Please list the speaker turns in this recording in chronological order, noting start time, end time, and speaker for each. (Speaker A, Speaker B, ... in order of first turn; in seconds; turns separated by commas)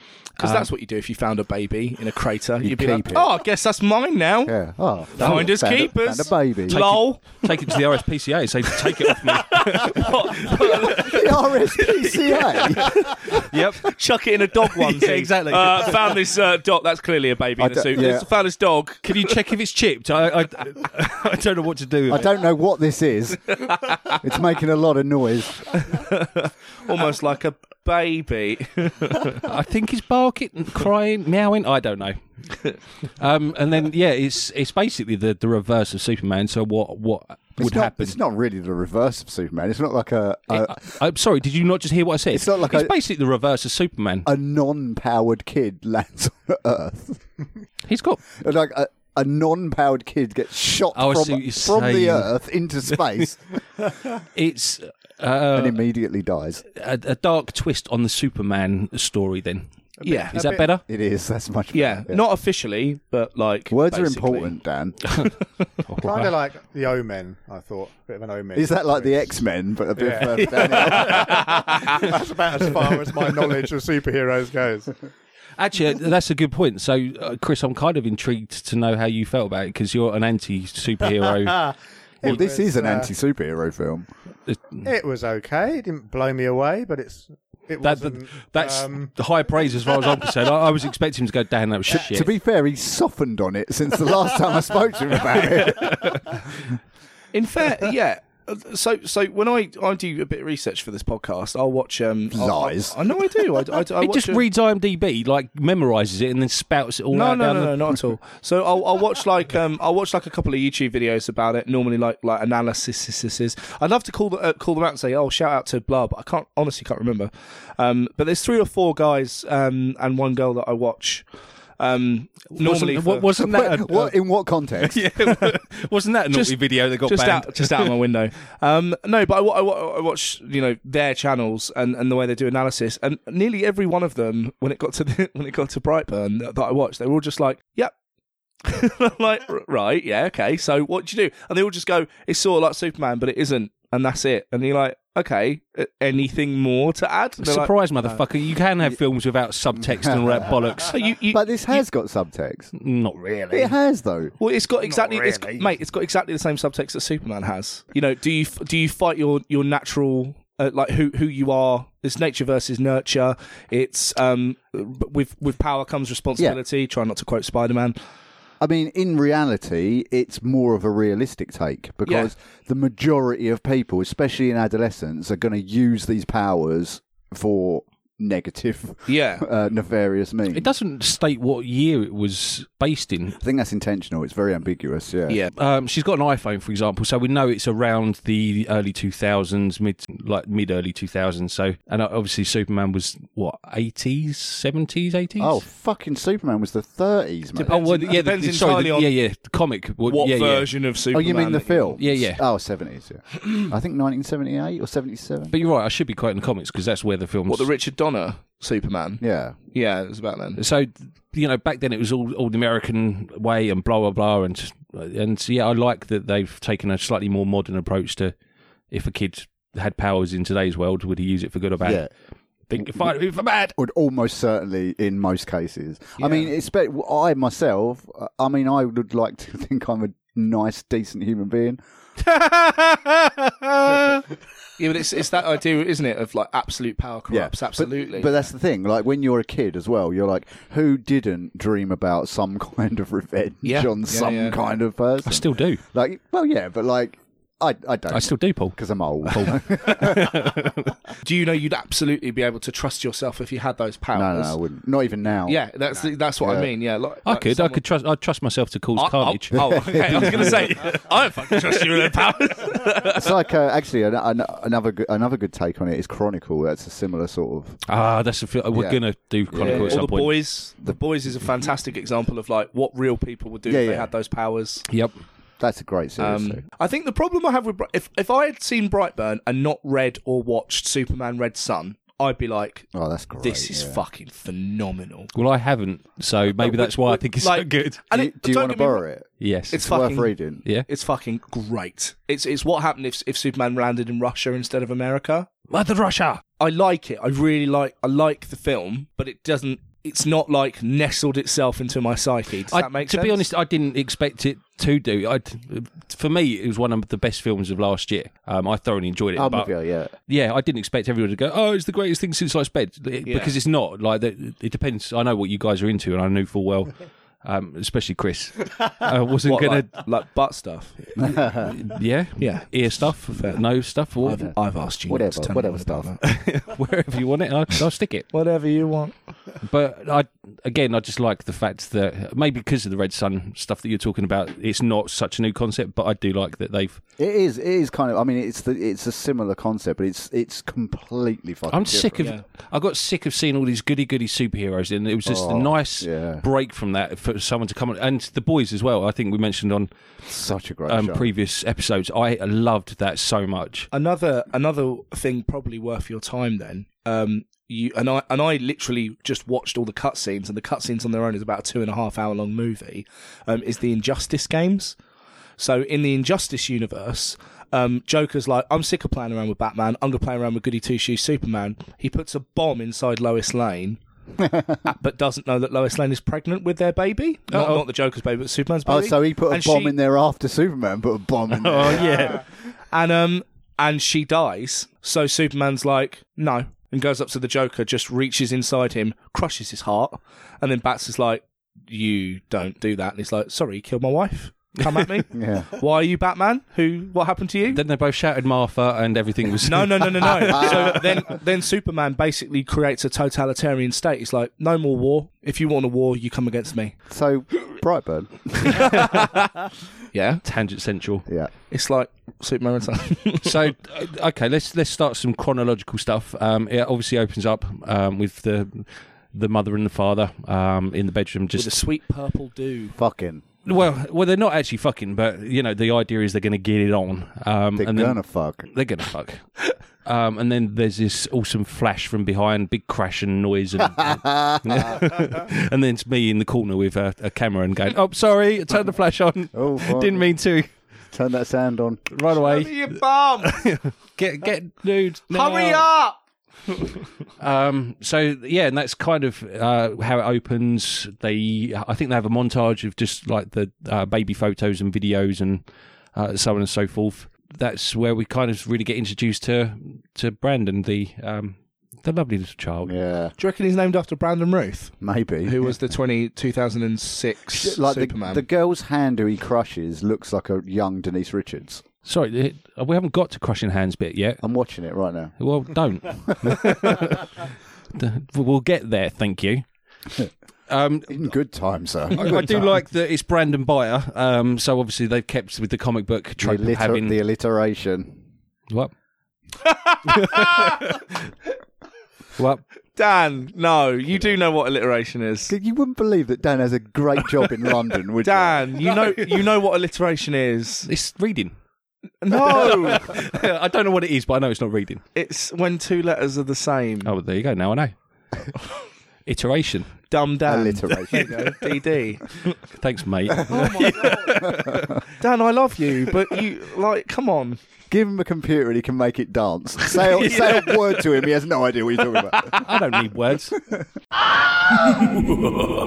Speaker A: 0.4-0.7, Speaker B: 0.4-4.5, Speaker C: 2.6-3.3, Speaker C: 4.5-6.8, Speaker B: 5.1-7.5, Speaker A: 5.2-5.5, Speaker A: 6.7-13.9, Speaker B: 8.7-19.3, Speaker C: 10.8-13.1, Speaker A: 14.7-16.2, Speaker C: 17.6-18.3, Speaker A: 19.0-22.3, Speaker C: 22.1-25.9, Speaker B: 23.7-24.2, Speaker B: 25.7-29.4, Speaker A: 29.4-38.2, Speaker C: 37.6-40.8, Speaker A: 40.5-44.3, Speaker C: 42.3-42.9, Speaker C: 44.2-47.2, Speaker A: 47.9-48.2, Speaker C: 48.3-53.4, Speaker A: 50.9-52.3, Speaker A: 54.3-55.8, Speaker C: 55.5-56.6, Speaker A: 56.7-59.7, Speaker D: 60.0-60.7, Speaker B: 60.0-60.4, Speaker A: 60.3-60.8, Speaker C: 60.8-62.2, Speaker B: 61.7-64.6, Speaker C: 63.7-65.2, Speaker A: 65.9-66.3, Speaker D: 66.0-69.4, Speaker C: 68.5-71.5, Speaker D: 70.0-75.0, Speaker B: 71.3-71.7, Speaker A: 75.6-81.7, Speaker D: 81.4-83.1, Speaker C: 82.2-84.1, Speaker A: 84.5-84.8, Speaker D: 84.8-89.1, Speaker A: 87.8-92.3, Speaker C: 91.9-96.4, Speaker B: 97.3-104.4, Speaker C: 102.3-103.0, Speaker A: 104.0-108.0, Speaker B: 107.1-121.2, Speaker B: 121.8-123.3, Speaker A: 122.5-124.2, Speaker C: 123.3-125.0, Speaker A: 124.8-127.9, Speaker B: 126.3-137.9, Speaker B: 138.6-148.2, Speaker A: 147.4-151.0, Speaker C: 149.8-150.5, Speaker B: 150.8-151.8, Speaker C: 151.3-152.7, Speaker A: 152.8-153.7, Speaker C: 153.5-154.3, Speaker B: 154.4-168.0, Speaker A: 154.8-155.7, Speaker C: 168.6-180.7, Speaker B: 172.1-172.3, Speaker B: 179.1-179.4, Speaker A: 180.5-183.4, Speaker C: 183.4-185.4, Speaker A: 185.5-195.6, Speaker C: 195.4-197.8, Speaker B: 197.6-199.1, Speaker A: 197.7-200.7, Speaker B: 200.1-202.0, Speaker C: 201.1-205.5, Speaker A: 202.0-202.4, Speaker A: 205.5-207.7, Speaker B: 207.5-210.6, Speaker C: 209.2-209.6, Speaker A: 210.6-218.3, Speaker A: 218.9-222.1, Speaker C: 221.8-222.1, Speaker A: 222.7-223.7, Speaker C: 222.8-223.1, Speaker C: 223.7-231.8, Speaker B: 226.2-226.5, Speaker A: 232.4-233.3, Speaker B: 234.8-238.5, Speaker C: 237.3-250.5, Speaker B: 243.6-244.6, Speaker A: 245.2-245.8, Speaker A: 248.1-250.9, Speaker B: 251.2-254.6, Speaker C: 254.1-255.6, Speaker B: 255.5-257.8, Speaker C: 256.4-256.7, Speaker A: 257.2-260.7, Speaker B: 258.9-263.3, Speaker C: 259.5-260.6, Speaker C: 263.1-267.8, Speaker A: 267.9-270.4, Speaker C: 268.7-270.1, Speaker B: 269.6-274.8, Speaker C: 273.7-274.1, Speaker A: 274.9-275.1, Speaker C: 275.6-276.6, Speaker B: 276.2-285.3, Speaker C: 282.9-284.0, Speaker A: 285.3-288.0, Speaker B: 286.6-289.0, Speaker C: 288.1-290.6, Speaker A: 289.4-289.9, Speaker B: 289.7-295.5, Speaker A: 295.7-296.4, Speaker B: 296.6-303.4, Speaker A: 302.7-309.7, Speaker C: 309.4-310.1, Speaker A: 310.2-320.0, Speaker B: 313.2-313.5, Speaker B: 319.4-321.4, Speaker C: 321.2-321.7, Speaker A: 321.6-324.5, Speaker B: 322.4-323.6, Speaker B: 324.2-326.2, Speaker C: 325.1-326.1, Speaker A: 326.2-328.3, Speaker B: 328.3-329.2, Speaker A: 329.6-337.0, Speaker C: 337.2-342.3, Speaker A: 341.7-349.9, Speaker C: 345.2-346.4, Speaker C: 350.2-351.3, Speaker A: 350.9-353.9, Speaker B: 353.9-365.0, Speaker B: 365.6-374.0, Speaker C: 374.4-374.8, Speaker B: 374.8-379.9, Speaker A: 377.5-377.8, Speaker C: 378.8-382.2, Speaker A: 381.6-382.4, Speaker B: 381.7-382.4, Speaker B: 382.9-397.8, Speaker C: 395.3-395.7, Speaker A: 397.7-401.0, Speaker B: 399.6-406.9, Speaker C: 400.4-401.0, Speaker C: 407.1-409.0, Speaker B: 408.8-409.4, Speaker B: 410.1-410.4, Speaker A: 410.4-411.2, Speaker B: 411.7-413.7, Speaker A: 413.4-421.8, Speaker B: 421.5-423.0, Speaker C: 422.9-423.4, Speaker A: 423.6-440.7, Speaker C: 427.8-428.7, Speaker C: 434.0-435.0, Speaker C: 439.5-440.3, Speaker C: 441.1-442.1, Speaker A: 442.1-445.9, Speaker B: 442.3-443.6, Speaker B: 445.3-446.2, Speaker A: 447.4-455.6, Speaker A: 456.1-462.9, Speaker C: 462.8-463.3, Speaker B: 463.4-468.4, Speaker C: 465.0-465.8, Speaker C: 467.5-471.8, Speaker A: 472.0-474.4, Speaker C: 474.4-475.3, Speaker A: 475.4-479.6, Speaker C: 476.4-476.7, Speaker A: 480.7-481.3, Speaker C: 481.1-482.7, Speaker A: 482.1-487.2, Speaker C: 486.4-488.2, Speaker B: 489.6-490.9, Speaker A: 490.2-491.0, Speaker A: 492.4-492.6, Speaker B: 492.9-495.5, Speaker C: 495.5-498.7, Speaker B: 498.2-500.9, Speaker A: 500.9-501.6, Speaker B: 502.2-503.2, Speaker A: 502.3-505.0, Speaker B: 505.1-507.1, Speaker A: 507.0-507.9, Speaker A: 509.2-509.9, Speaker B: 510.1-512.6, Speaker C: 510.4-511.5, Speaker A: 512.6-515.0, Speaker B: 513.5-517.6, Speaker C: 514.3-514.9, Speaker C: 517.9-522.7, Speaker B: 520.1-520.8, Speaker A: 522.5-523.6, Speaker B: 525.0-525.5